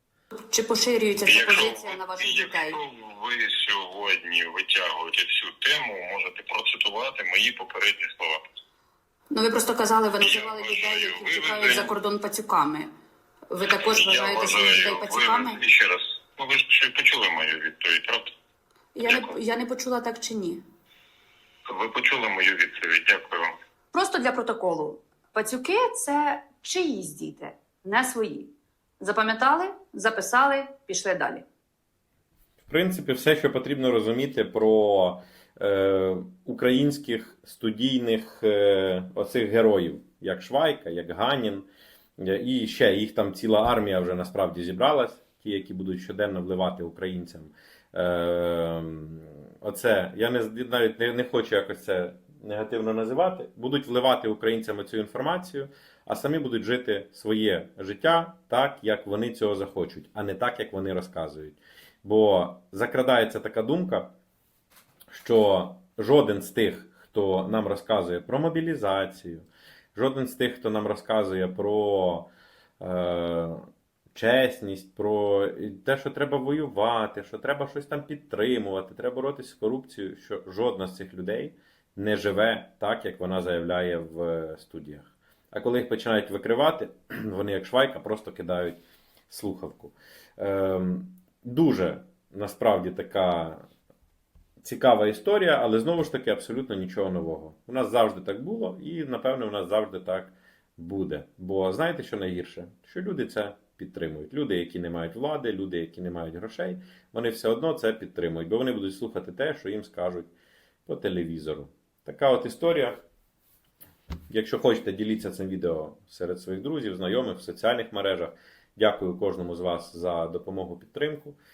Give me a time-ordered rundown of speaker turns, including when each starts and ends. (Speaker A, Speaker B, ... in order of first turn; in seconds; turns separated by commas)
Speaker A: 0.5-2.8, Speaker B: 1.2-8.4, Speaker A: 9.3-12.9, Speaker B: 10.2-11.9, Speaker A: 13.5-15.6, Speaker B: 13.6-18.3, Speaker A: 19.0-20.6, Speaker B: 19.0-19.3, Speaker B: 21.7-23.5, Speaker A: 23.9-31.4, Speaker C: 32.6-41.7, Speaker C: 42.2-64.1, Speaker C: 65.1-72.3, Speaker C: 72.8-73.6, Speaker C: 74.1-88.8, Speaker C: 89.3-93.6, Speaker C: 94.6-110.3, Speaker C: 110.9-113.0, Speaker C: 114.3-121.4